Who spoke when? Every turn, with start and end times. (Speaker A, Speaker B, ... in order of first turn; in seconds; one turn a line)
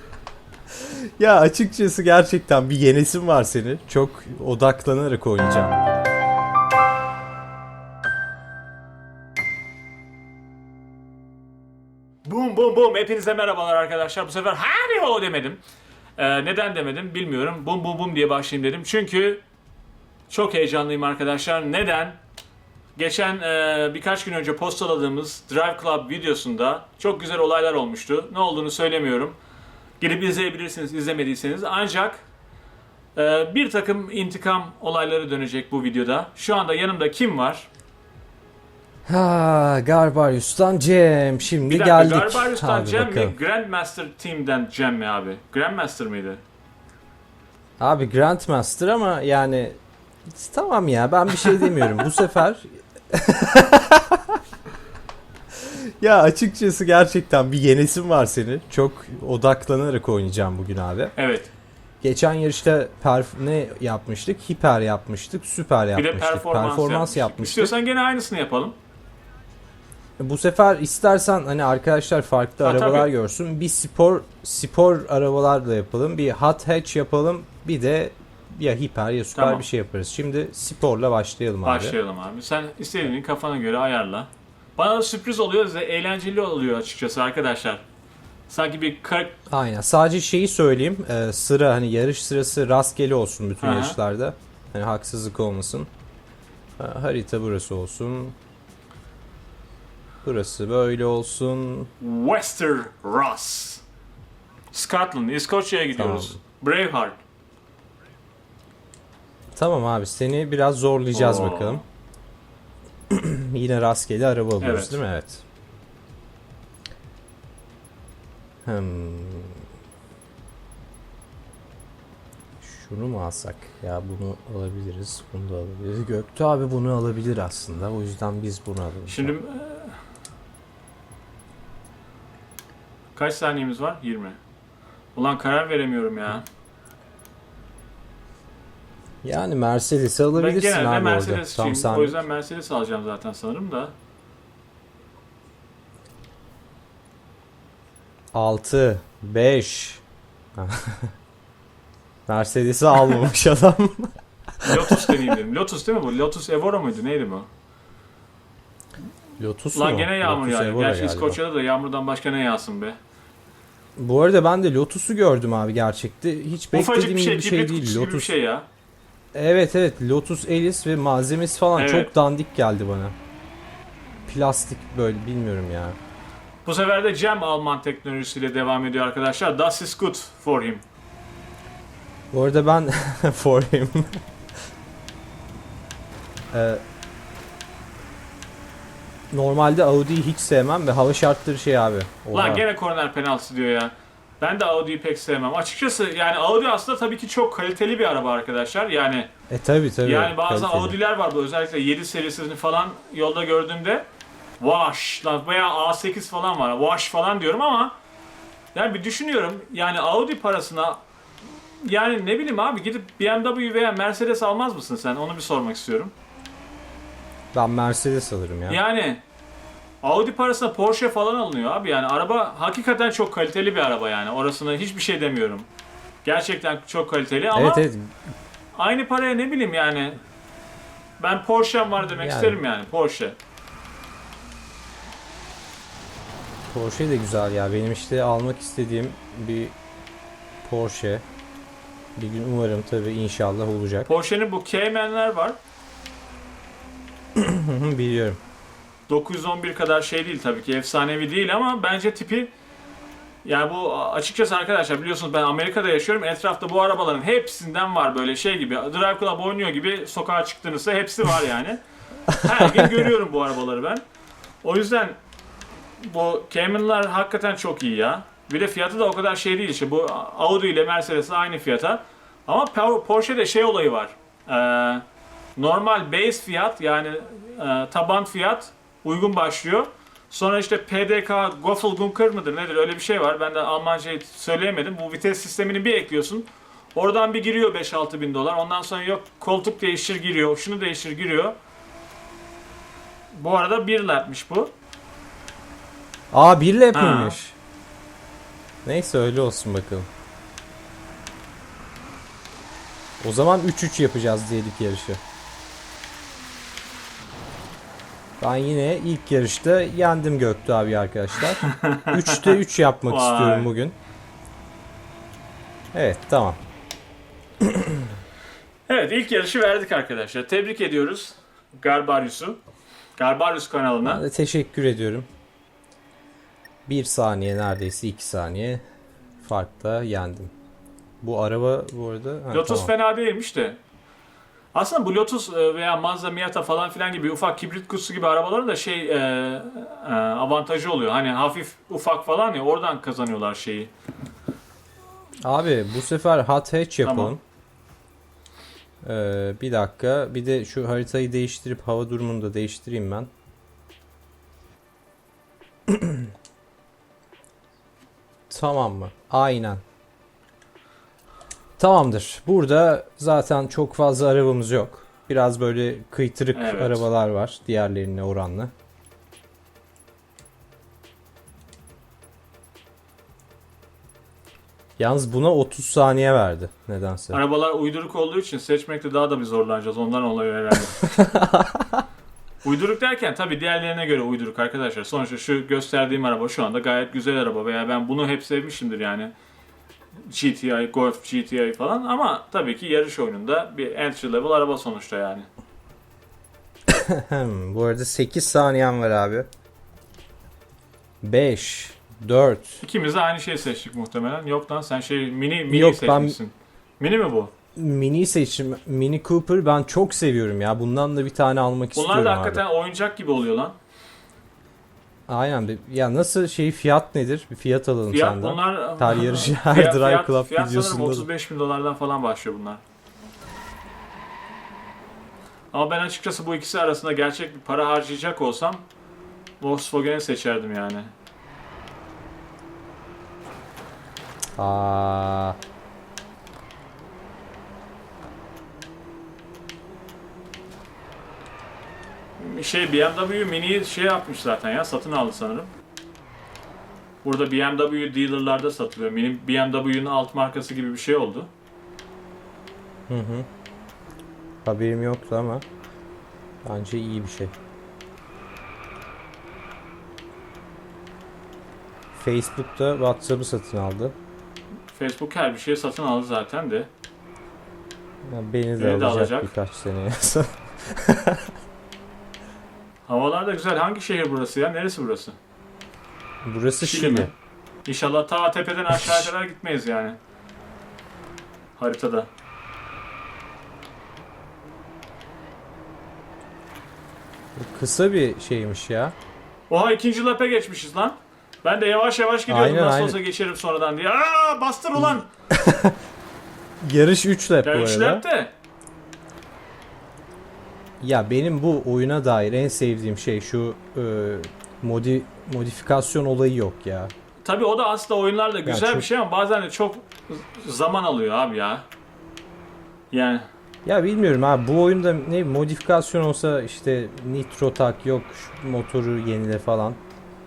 Speaker A: 1.2-6.1
Speaker B: 12.2-15.6
Speaker B: 16.2-19.4
Speaker B: 20.3-22.2
Speaker B: 22.9-29.4
Speaker B: 30.0-32.2
Speaker B: 33.1-37.7
Speaker A: 39.1-43.3
Speaker B: 41.6-46.4
Speaker A: 47.8-49.8
Speaker A: 50.3-54.4
Speaker A: 55.5-61.1
Speaker B: 61.2-61.5
Speaker A: 62.0-67.7
Speaker B: 66.0-68.8
Speaker A: 70.2-82.0
Speaker B: 72.6-73.1
Speaker B: 79.3-79.7
Speaker B: 81.6-87.8
Speaker B: 88.5-89.3
Speaker A: 89.5-95.9
Speaker B: 93.6-94.0
Speaker A: 96.8-98.3
Speaker A: 100.2-101.9
Speaker B: 102.0-103.8
Speaker B: 104.7-107.2
Speaker A: 106.0-106.4
Speaker A: 109.5-111.8
Speaker B: 111.1-111.8
Speaker A: 113.1-115.4
Speaker B: 114.6-115.0
Speaker A: 118.6-119.6
Speaker A: 122.6-129.3
Speaker B: 129.1-130.0
Speaker B: 133.1-134.4
Speaker B: 135.1-136.4
Speaker A: 139.2-142.2
Speaker B: 140.3-143.9
Speaker A: 148.3-150.0
Speaker A: 150.6-151.1
Speaker A: 152.3-155.2
Speaker B: 154.6-157.5
Speaker A: 159.4-161.4
Speaker B: 159.7-163.0
Speaker A: 164.0-168.3
Speaker B: 166.7-168.7
Speaker A: 169.3-173.1
Speaker B: 171.7-172.1
Speaker A: 174.2-176.0
Speaker B: 176.6-180.8
Speaker A: 182.3-184.2
Speaker A: 186.5-186.8
Speaker A: 189.3-192.6
Speaker B: 192.3-199.3
Speaker A: 199.5-200.9
Speaker B: 200.0-204.1
Speaker B: 204.6-207.9
Speaker B: 208.7-211.0
Speaker B: 211.8-216.1
Speaker A: 217.5-218.8
Speaker B: 218.7-219.2
Speaker B: 220.0-225.7
Speaker B: 226.2-227.8
Speaker A: 227.5-228.1
Speaker B: 228.8-230.2
Speaker B: 231.2-233.3
Speaker A: 232.1-232.6
Speaker A: 236.7-239.8
Speaker A: 240.6-241.2
Speaker A: 242.2-244.1
Speaker B: 244.1-245.6
Speaker A: 247.4-248.4
Speaker B: 249.1-252.5
Speaker B: 253.4-261.8
Speaker B: 262.3-264.0
Speaker B: 264.6-265.2
Speaker B: 266.0-275.0
Speaker B: 275.6-291.5
Speaker B: 293.3-294.7
Speaker A: 296.3-297.6
Speaker B: 296.9-297.4
Speaker A: 298.8-300.1
Speaker A: 303.2-305.2
Speaker A: 308.4-313.9
Speaker B: 311.5-312.6
Speaker B: 313.1-313.7
Speaker A: 315.9-316.6
Speaker A: 317.6-318.0
Speaker B: 318.9-322.6
Speaker B: 323.2-324.2
Speaker A: 324.0-325.3
Speaker A: 326.9-328.8
Speaker A: 329.4-330.5
Speaker A: 331.2-332.9
Speaker B: 332.5-333.8
Speaker B: 334.7-343.9
Speaker A: 345.4-347.4
Speaker B: 347.0-347.4
Speaker A: 349.0-353.3
Speaker A: 355.9-356.2
Speaker A: 358.5-359.8
Speaker A: 361.8-368.7
Speaker B: 366.5-367.1
Speaker A: 375.0-377.4
Speaker B: 377.3-381.1
Speaker A: 381.1-381.9
Speaker B: 382.6-389.3
Speaker B: 390.3-395.5
Speaker A: 396.9-399.5
Speaker A: 401.2-402.8
Speaker B: 402.8-407.5
Speaker A: 405.7-406.4
Speaker A: 407.8-412.6
Speaker B: 411.9-413.8
Speaker A: 415.3-421.3
Speaker B: 418.1-422.8
Speaker B: 425.7-428.8
Speaker B: 429.6-431.1
Speaker A: 434.6-435.6
Speaker B: 442.4-445.7
Speaker B: 447.2-451.5
Speaker A: 453.1-453.5
Speaker A: 454.6-455.6
Speaker A: 456.6-457.5
Speaker A: 462.1-464.1
Speaker B: 464.9-466.9
Speaker A: 468.2-471.5
Speaker B: 468.8-469.5
Speaker B: 473.1-475.4
Speaker A: 476.4-477.3
Speaker B: 476.8-477.3
Speaker B: 477.8-480.2
Speaker A: 478.9-479.3
Speaker B: 481.8-482.3
Speaker A: 487.6-489.1
Speaker B: 489.7-495.3
Speaker A: 492.5-493.2
Speaker A: 495.0-495.9
Speaker A: 496.8-498.2
Speaker B: 497.6-498.5
Speaker A: 501.0-507.1
Speaker B: 507.4-511.9
Speaker A: 508.6-509.1
Speaker B: 513.1-513.5
Speaker A: 513.8-520.0